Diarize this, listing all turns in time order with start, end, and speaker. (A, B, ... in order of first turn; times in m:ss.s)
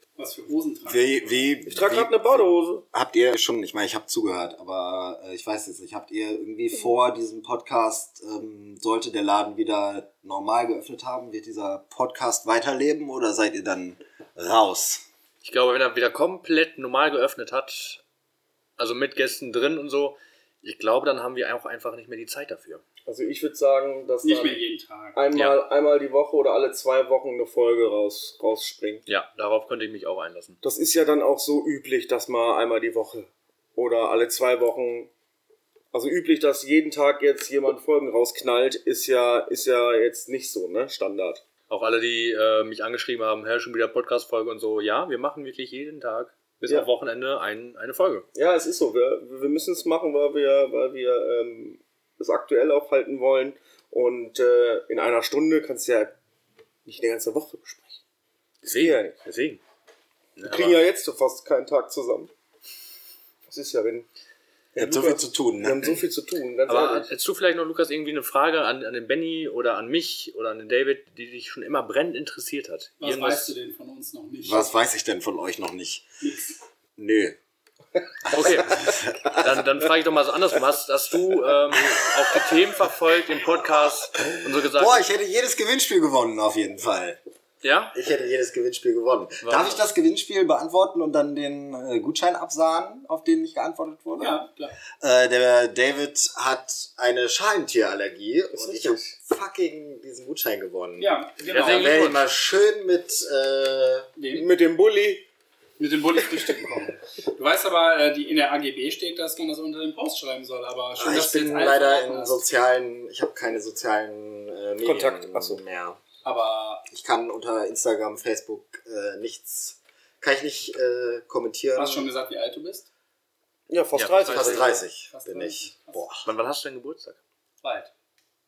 0:00.2-0:01.5 A
0:00.8-0:15.0 B
0:01.7-0:02.8 C
0:15.4-0:18.0 D
0:18.8-0:22.8 D
0:23.1-0:24.6 C
0:24.2-0:25.2 A
0:25.2-0:29.0 C
0:29.1-0:30.6 D
0:30.6-0:35.1 C
0:35.9-0:41.4 C
0:41.7-0:48.3 D
0:48.3-0:56.2 C
0:56.8-0:58.0 C
0:58.6-0:59.6 D
0:58.6-0:59.2 C
1:00.4-1:00.8 D
1:00.4-1:02.3 C
1:03.5-1:04.1 C
1:04.8-1:07.1 C
1:04.8-1:06.0 B
1:06.7-1:13.5 D
1:13.0-1:14.7 A
1:14.4-1:16.1 B
1:16.2-1:16.6 A
1:17.0-1:17.4 B
1:18.2-1:19.7 B
1:18.3-1:25.0 D
1:24.6-1:27.2 B
1:27.6-1:28.0 D
1:27.9-1:34.4 B
1:29.4-1:29.8 D
1:34.2-1:34.8 A
1:35.0-1:44.1 B
1:38.5-1:39.2 C
1:41.0-1:42.0 A
1:41.5-1:42.2 D
1:44.2-1:44.5 A
1:44.4-1:45.3 C
1:45.8-1:52.4 A
1:51.0-1:56.0 B
1:54.8-1:55.6 C
1:56.2-1:56.8 A
1:56.9-2:02.1 B
2:01.8-2:02.9 A
2:03.7-2:04.8 C
2:04.0-2:04.7 D
2:04.2-2:06.3 B
2:05.1-2:06.0 A
2:06.2-2:07.2 D
2:07.6-2:07.9 A